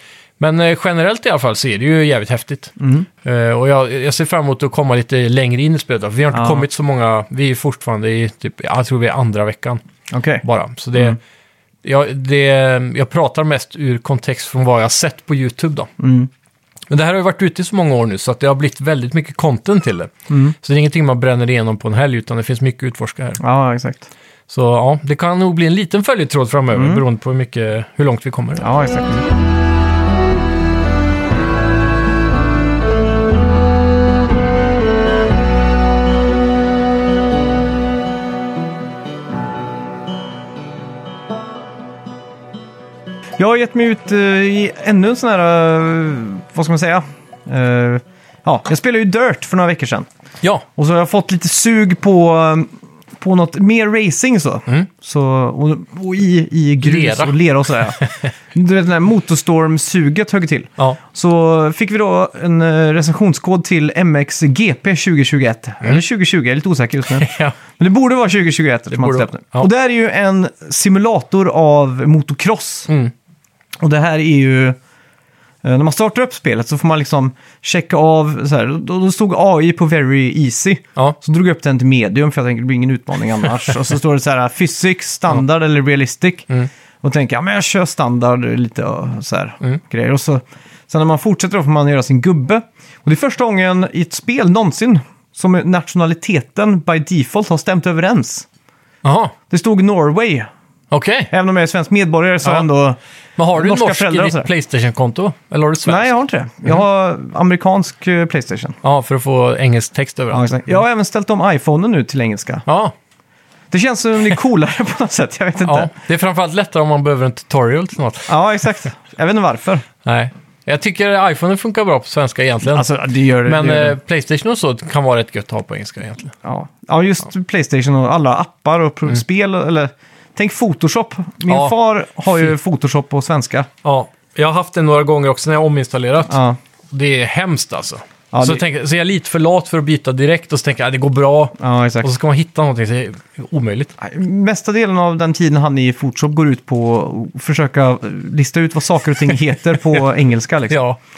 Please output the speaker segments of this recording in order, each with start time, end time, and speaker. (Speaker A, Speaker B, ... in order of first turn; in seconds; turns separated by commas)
Speaker A: 0.4-9.8, Speaker B: 2.8-3.1, Speaker B: 6.3-6.6, Speaker B: 10.1-10.4, Speaker A: 10.4-11.2, Speaker A: 11.8-15.9, Speaker B: 16.0-16.3, Speaker A: 16.9-23.4, Speaker B: 20.3-20.5, Speaker B: 23.4-24.0, Speaker A: 24.5-28.6, Speaker B: 26.7-27.0, Speaker B: 28.6-29.2, Speaker B: 43.4-50.1, Speaker B: 50.8-58.0, Speaker A: 56.8-57.4, Speaker A: 57.9-58.3, Speaker B: 58.5-72.9, Speaker A: 67.1-67.5, Speaker A: 68.9-69.7, Speaker B: 73.8-74.8, Speaker B: 75.6-86.5, Speaker B: 87.0-98.5, Speaker A: 99.0-99.3, Speaker B: 99.5-100.5, Speaker A: 100.9-101.3, Speaker B: 101.3-103.0, Speaker A: 103.4-106.1, Speaker B: 103.5-104.5, Speaker B: 105.8-108.8, Speaker A: 108.8-110.7, Speaker B: 110.3-112.6, Speaker A: 112.7-112.9, Speaker B: 113.7-115.9, Speaker A: 115.6-118.3, Speaker B: 118.3-119.8, Speaker A: 120.0-122.9, Speaker B: 122.7-124.0, Speaker A: 123.4-126.3, Speaker B: 126.4-133.7, Speaker A: 133.8-136.4, Speaker B: 136.3-136.6, Speaker A: 136.9-143.9, Speaker B: 138.3-138.6, Speaker B: 141.6-142.1, Speaker B: 144.0-150.8, Speaker A: 150.7-151.0